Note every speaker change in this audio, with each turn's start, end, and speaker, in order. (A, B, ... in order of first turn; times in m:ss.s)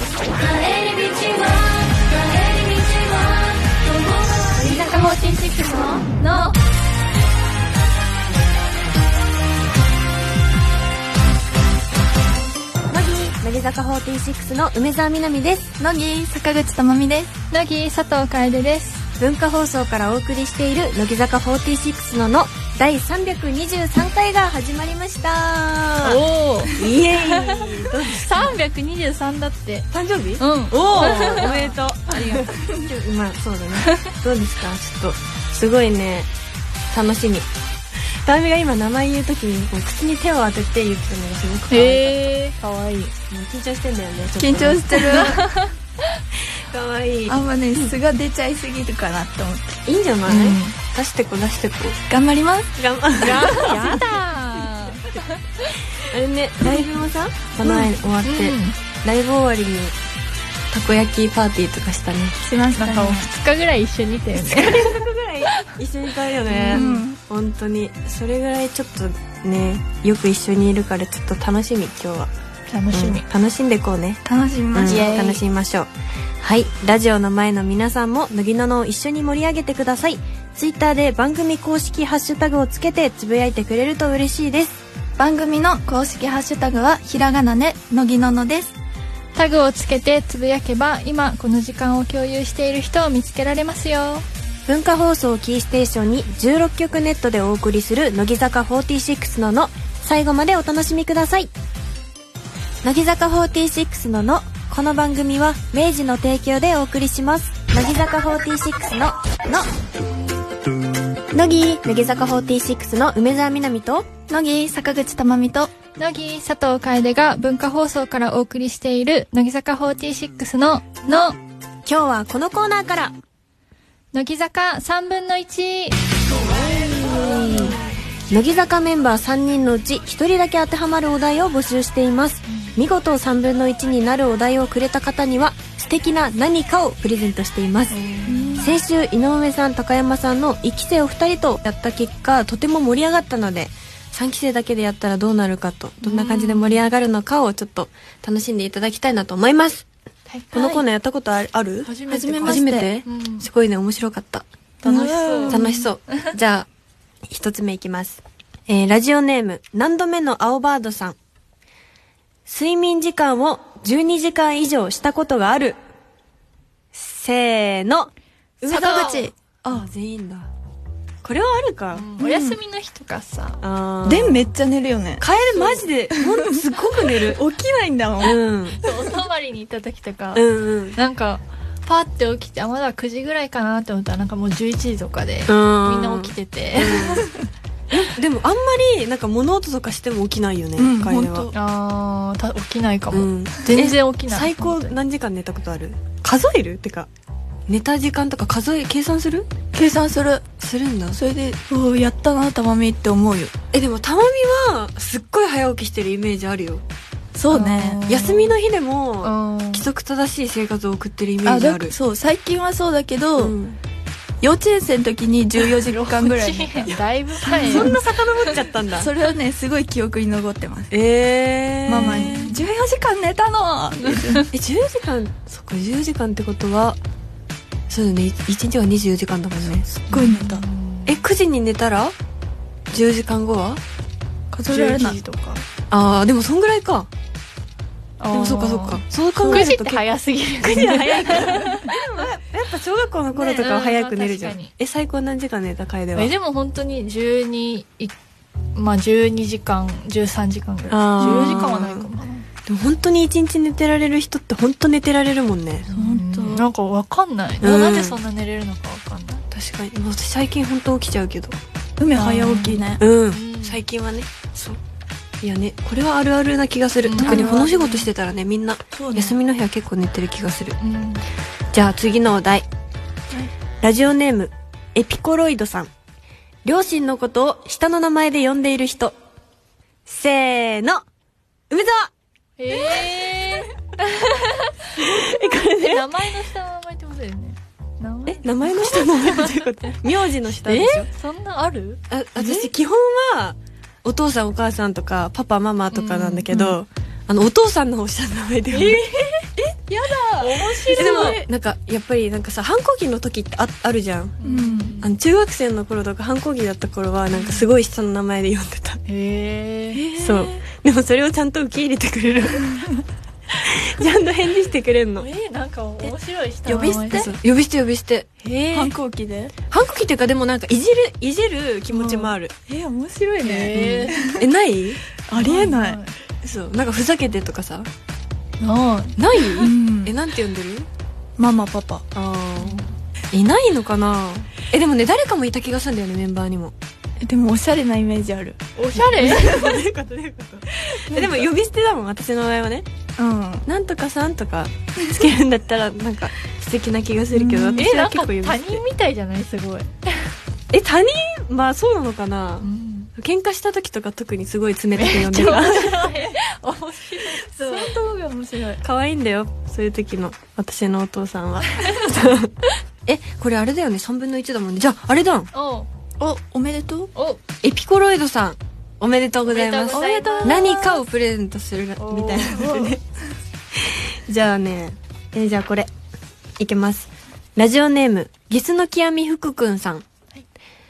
0:00.3-0:06.5 A
0:12.9-0:15.7 B
0:15.8-0:17.3 C
0:17.5-0:19.0 A
0:19.2-0:28.6 B
0:26.0-0:27.5 A
0:28.1-0:32.6 A
0:29.9-0:36.3 B
0:33.8-0:34.1 A
0:36.9-0:37.5 B
0:38.2-0:42.2 B
0:41.7-0:43.1 A
0:43.3-0:45.3 B
0:44.4-0:45.4 C
0:44.9-0:45.7 A
0:46.6-0:47.4 B
0:47.3-0:49.8 C
0:49.8-0:52.0 B
0:50.3-0:50.8 A
0:52.1-0:53.6 C
0:52.8-0:54.0 B
0:53.2-0:55.7 A
0:56.0-0:59.9 B
0:57.6-0:57.9 C
0:58.2-0:58.8 A
1:00.7-1:02.4 B
1:02.4-1:03.3 C
1:02.8-1:04.8 A
1:04.4-1:12.3 B
1:06.5-1:07.0 A
1:06.7-1:07.2 C
1:12.7-1:13.2 A
1:12.9-1:15.9 B
1:14.2-1:15.2 C
1:14.9-1:15.4 A
1:16.4-1:24.8 B
1:25.2-1:28.7 C
1:29.3-1:34.2 A
1:34.7-1:41.5 B
1:42.8-1:49.7 B
1:51.3-1:54.0 B
1:54.3-1:55.7 C
1:56.0-2:01.4 A
2:01.8-2:03.1 B
2:04.1-2:06.0 A
2:06.3-2:07.8 B
2:08.3-2:18.0 B
2:17.9-2:18.7 A
2:18.3-2:18.8 C
2:18.6-2:29.9 B
2:26.0-2:26.8 A
2:30.3-2:30.8 A
2:30.5-2:34.4 B
2:31.8-2:33.5 A
2:32.1-2:32.9 C
2:34.8-2:36.3 A
2:34.8-2:35.8 C
2:35.5-2:36.7 B
2:37.3-2:41.2 B
2:42.5-2:45.8 B
2:46.9-2:50.5 B
2:48.6-2:49.9 C
2:51.2-2:52.1 B
2:51.9-2:53.6 A
2:52.2-2:52.6 C
2:53.6-2:54.5 B
2:54.0-2:55.2 C
2:55.2-2:57.4 B
2:55.5-2:55.8 A
2:56.1-2:58.4 C
2:58.2-2:58.8 B
2:58.8-3:07.2 A
3:00.3-3:01.0 B
3:05.5-3:07.3 B
3:07.9-3:11.5 B
3:10.8-3:11.5 C
3:11.5-3:15.0 A
3:13.1-3:17.1 B
3:17.7-3:19.5 B
3:19.7-3:20.4 C
3:20.6-3:21.2 B
3:21.1-3:23.5 C
3:23.7-3:26.8 B
3:27.3-3:28.0 C
3:27.5-3:28.6 A
3:28.1-3:31.9 B
3:29.2-3:29.9 A
3:31.4-3:33.6 C
3:33.4-3:33.8 B
3:34.4-3:38.0 C
3:35.9-3:38.6 A
3:36.8-3:39.1 B
3:39.0-3:40.9 C
3:40.9-3:42.6 B
3:41.8-3:44.5 C
3:41.9-3:42.6 A
3:44.0-3:44.4 A
3:44.5-3:47.0 B
3:47.9-3:49.9 B
3:49.8-3:50.6 C
3:50.1-3:51.2 A
3:51.0-3:52.1 B
3:52.9-3:53.8 B
3:54.5-3:55.6 C
3:54.7-3:55.2 B
3:55.8-3:57.1 B
3:58.2-4:02.0 A
3:58.3-4:00.1 B
3:59.4-3:59.7 C
4:00.6-4:06.3 B
4:03.3-4:04.7 A
4:06.1-4:08.1 A
4:08.7-4:12.4 A
4:10.9-4:12.1 B
4:12.7-4:15.9 B
4:15.9-4:19.4 A
4:15.9-4:16.7 C
4:17.6-4:18.2 B
4:19.5-4:21.6 B
4:22.0-4:23.0 C
4:22.2-4:23.8 A
4:23.0-4:24.8 B
4:25.4-4:30.8 B
4:27.0-4:27.6 A
4:27.2-4:28.0 C
4:28.9-4:29.4 C
4:30.8-4:31.2 A
4:31.7-4:32.7 B
4:33.8-4:35.9 B
4:36.6-4:39.2 B
4:40.0-4:41.0 B
4:41.7-4:42.1 B
4:42.6-4:50.0 A
4:45.0-4:46.1 B
4:48.2-4:51.1 B
4:50.6-4:52.6 A
4:52.1-4:59.0 B
4:55.9-4:56.8 A
4:58.7-5:01.4 C
5:00.4-5:04.4 B
5:00.6-5:01.0 A
5:04.4-5:05.1 A
5:04.4-5:05.0 C
5:05.0-5:09.0 B
5:09.1-5:10.0 A
5:09.9-5:10.6 C
5:10.2-5:12.7 B
5:12.5-5:13.0 C
5:13.5-5:15.3 B
5:15.2-5:17.3 A
5:16.6-5:17.3 C
5:16.8-5:18.9 B
5:18.7-5:19.5 C
5:19.7-5:22.5 B
5:22.0-5:24.4 C
5:23.4-5:24.2 A
5:23.7-5:25.0 B
5:25.3-5:26.0 C
5:25.3-5:26.1 A
5:26.4-5:27.9 B
5:28.6-5:29.7 A
5:29.2-5:30.9 B
5:29.6-5:30.1 C
5:31.4-5:32.0 C
5:32.1-5:36.7 B
5:32.6-5:32.9 A
5:37.2-5:39.8 C
5:38.8-5:39.7 A
5:39.2-5:42.9 B
5:40.8-5:41.5 C
5:43.2-5:43.6 C
5:43.6-5:48.8 B
5:47.3-5:47.8 C
5:47.8-5:50.1 A
5:50.7-5:56.0 B
5:52.6-5:53.1 A
5:54.9-5:58.0 A
5:56.0-5:56.3 C
5:57.2-5:58.8 C
5:58.8-6:02.5 B
6:03.0-6:05.5 B
6:05.5-6:05.9 A
6:06.2-6:07.1 C
6:07.1-6:07.4 A
6:07.6-6:13.0 B
6:09.5-6:10.8 A
6:09.9-6:11.0 C
6:12.0-6:12.7 A
6:12.5-6:13.0 C
6:13.8-6:15.9 B
6:16.6-6:20.0 B